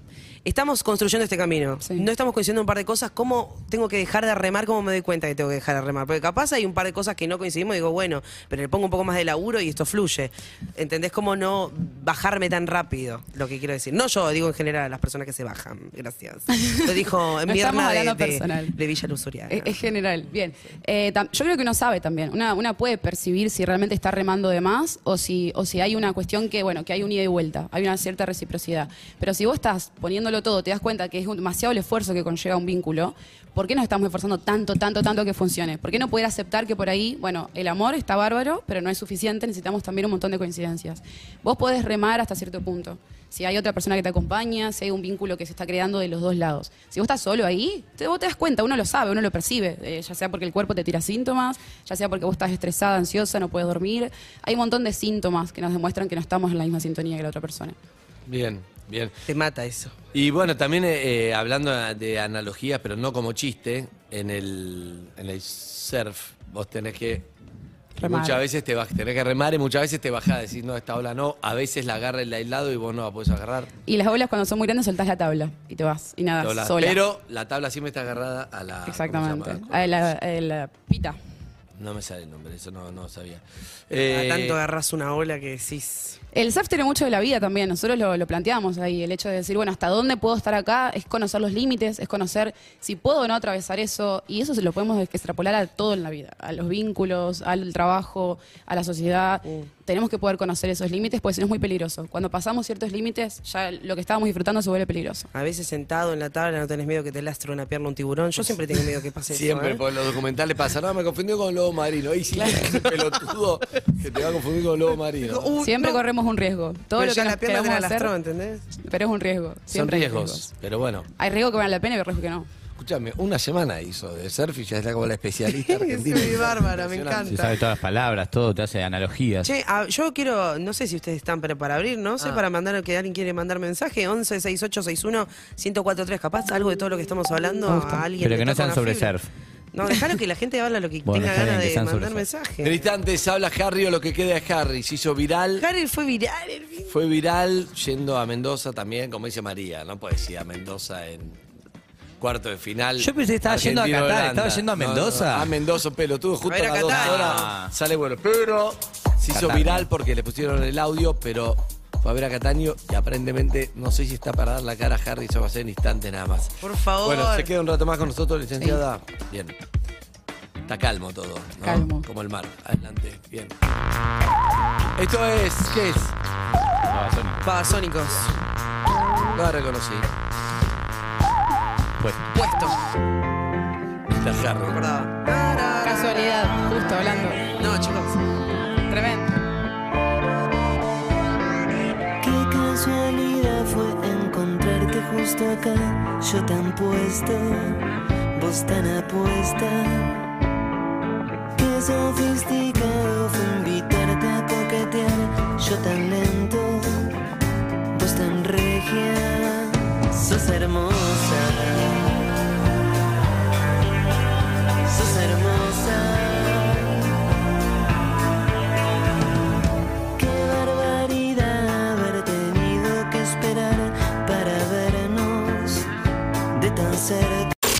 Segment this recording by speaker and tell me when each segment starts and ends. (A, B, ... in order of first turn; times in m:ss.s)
0:00.4-0:19.8 A
0:16.5-0:16.8 B
0:17.4-0:18.7 B
0:19.5-0:57.8 B
0:58.2-0:59.1 C
0:59.3-0:59.9 A
1:00.1-1:07.3 C
1:08.0-1:08.4 B
1:08.0-1:13.7 C
1:13.8-1:17.0 B
1:16.4-1:20.1 C
1:18.8-1:21.2 B
1:21.8-1:24.6 C
1:23.9-1:26.2 A
1:26.3-1:45.3 B
1:45.3-1:49.8 A
1:49.3-1:55.5 C
1:52.3-1:52.9 B
1:55.2-1:56.0 A
1:55.6-1:58.1 B
1:57.0-1:58.6 A
1:58.8-2:00.5 B
1:59.7-2:01.1 C
2:01.2-2:02.5 B
2:02.8-2:07.4 C
2:05.5-2:07.6 A
2:07.2-2:09.5 D
2:09.4-2:19.1 A
2:17.7-2:18.0 B
2:18.2-2:19.3 D
2:19.7-2:22.9 A
2:21.0-2:22.2 D
2:22.6-2:25.6 C
2:25.6-2:27.0 A
2:26.9-2:31.4 C
2:32.2-2:49.5 C
2:33.0-2:35.5 D
2:36.4-2:37.5 A
2:36.9-2:37.7 D
2:39.3-2:39.9 D
2:46.6-2:47.5 A
2:50.7-2:53.5 C
2:51.6-2:52.0 B
2:55.0-2:56.2 C
2:56.9-2:57.4 D
2:57.4-2:58.4 A
2:59.3-3:00.1 C
3:02.0-3:02.3 D
3:02.3-3:02.8 A
3:04.1-3:04.8 C
3:04.6-3:08.2 A
3:05.8-3:07.4 B
3:08.9-3:09.4 B
3:12.2-3:17.8 E
3:18.3-3:20.3 E
3:21.6-3:27.1 E
3:27.9-3:32.3 E
3:34.8-3:37.1 E
3:40.2-3:45.8 E
3:46.6-3:47.5 E